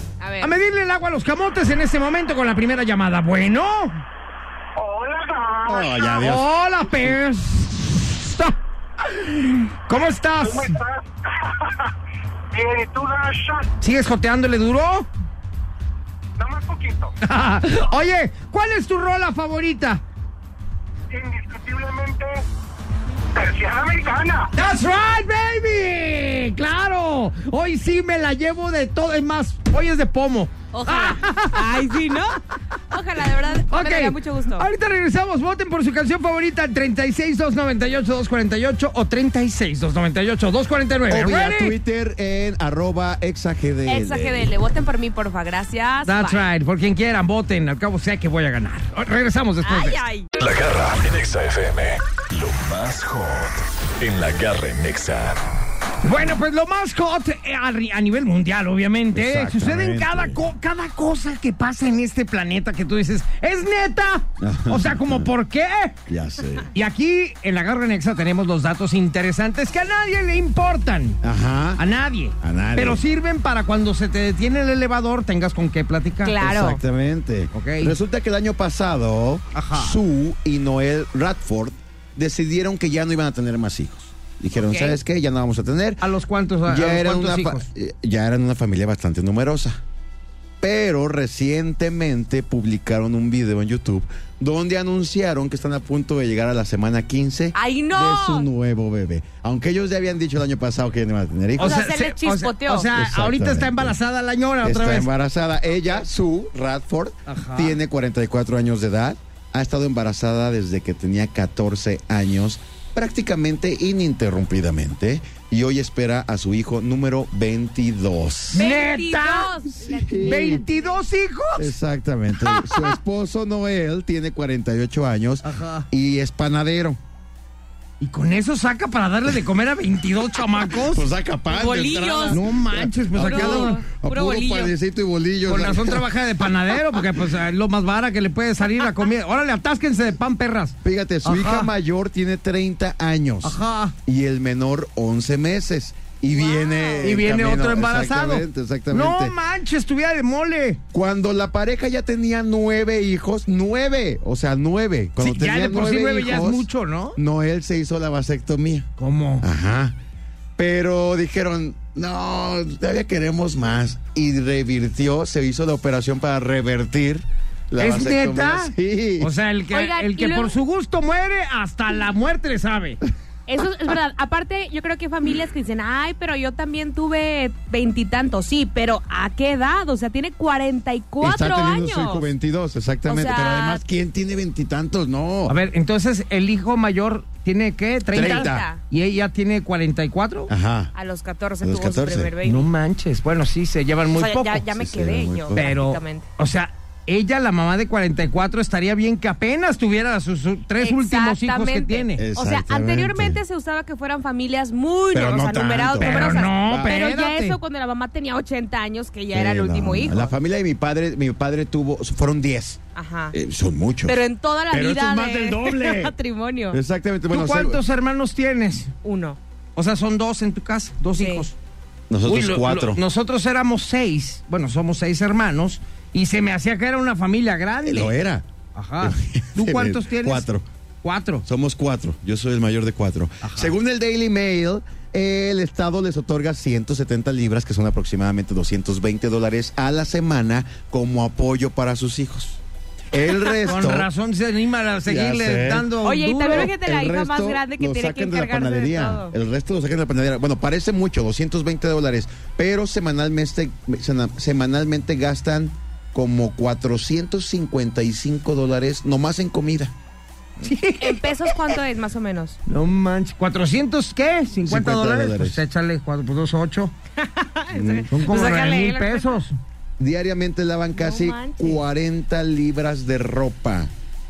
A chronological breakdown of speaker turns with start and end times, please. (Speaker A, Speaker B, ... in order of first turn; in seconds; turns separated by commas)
Speaker A: 0.2-0.5, Speaker B: 0.4-4.0, Speaker C: 4.8-6.2, Speaker D: 5.7-6.5, Speaker B: 6.2-8.6, Speaker B: 9.1-10.8, Speaker C: 10.4-11.1, Speaker C: 11.6-11.8, Speaker C: 12.5-13.7, Speaker B: 13.8-15.1, Speaker C: 16.4-17.1, Speaker B: 17.2-20.0, Speaker C: 21.1-22.4, Speaker C: 23.3-24.5, Speaker B: 24.5-31.9, Speaker A: 30.7-34.7, Speaker B: 33.7-41.8, Speaker D: 41.1-44.5, Speaker A: 43.9-46.5, Speaker B: 46.0-50.0, Speaker A: 49.6-50.3, Speaker E: 50.4-55.4, Speaker B: 56.0-66.0, Speaker D: 59.1-60.4, Speaker D: 64.4-65.3, Speaker D: 66.1-66.7, Speaker B: 66.7-71.2, Speaker D: 71.2-71.8, Speaker B: 71.8-76.4, Speaker D: 72.4-73.0, Speaker A: 76.2-76.8, Speaker D: 76.4-86.0, Speaker B: 77.5-77.9, Speaker B: 79.5-80.0, Speaker A: 84.5-85.0, Speaker B: 86.0-87.7, Speaker D: 86.7-89.8, Speaker D: 90.6-101.9, Speaker A: 97.5-98.5, Speaker B: 101.6-105.1, Speaker A: 101.6-102.9, Speaker D: 102.9-104.0, Speaker D: 104.6-118.6, Speaker B: 107.3-107.8, Speaker A: 118.5-121.0, Speaker B: 118.5-119.5, Speaker D: 119.7-120.6, Speaker B: 120.2-121.7, Speaker D: 121.6-127.0, Speaker B: 122.4-122.9, Speaker B: 125.4-125.9, Speaker B: 128.0-131.1, Speaker D: 130.6-136.1, Speaker A: 131.5-132.4, Speaker B: 132.3-133.8, Speaker A: 133.1-134.7, Speaker B: 135.4-141.7, Speaker D: 140.8-149.3, Speaker B: 143.4-143.9, Speaker A: 146.3-147.2, Speaker B: 147.0-150.8, Speaker D: 150.9-158.9, Speaker B: 155.2-157.2, Speaker B: 159.0-159.5, Speaker D: 159.4-160.0, Speaker D: 160.6-169.3, Speaker B: 167.8-173.0, Speaker A: 169.7-170.5, Speaker A: 173.5-182.2, Speaker D: 181.2-185.6, Speaker A: 183.1-183.8, Speaker B: 185.5-190.5, Speaker D: 188.1-188.7, Speaker A: 188.1-188.8, Speaker D: 190.5-190.9, Speaker A: 190.9-192.7, Speaker D: 191.6-192.3, Speaker B: 192.4-194.7, Speaker A: 194.1-196.2, Speaker D: 194.7-195.7, Speaker B: 195.5-202.2, Speaker A: 200.8-210.3, Speaker D: 202.2-203.4, Speaker D: 205.1-207.0, Speaker B: 206.0-207.6, Speaker D: 209.3-212.8, Speaker A: 212.9-213.3, Speaker D: 213.3-216.1, Speaker A: 214.1-216.8, Speaker D: 216.7-217.8, Speaker B: 217.3-218.9, Speaker A: 219.0-219.4, Speaker B: 219.8-221.5, Speaker A: 221.2-221.5, Speaker D: 222.1-223.0, Speaker B: 222.2-228.1, Speaker D: 227.8-228.4, Speaker B: 228.7-230.5, Speaker D: 229.0-230.6, Speaker B: 231.0-231.4, Speaker D: 231.4-242.6, Speaker B: 233.4-233.7, Speaker D: 243.1-244.1, Speaker B: 243.6-246.7, Speaker D: 245.0-245.9, Speaker A: 246.0-249.3, Speaker D: 246.5-259.9, Speaker B: 260.6-261.8, Speaker A: 261.0-262.6, Speaker B: 262.7-266.9, Speaker D: 264.6-265.6, Speaker A: 267.2-269.3, Speaker D: 267.7-268.1, Speaker B: 268.1-269.5, Speaker D: 270.0-273.9, Speaker A: 270.9-271.8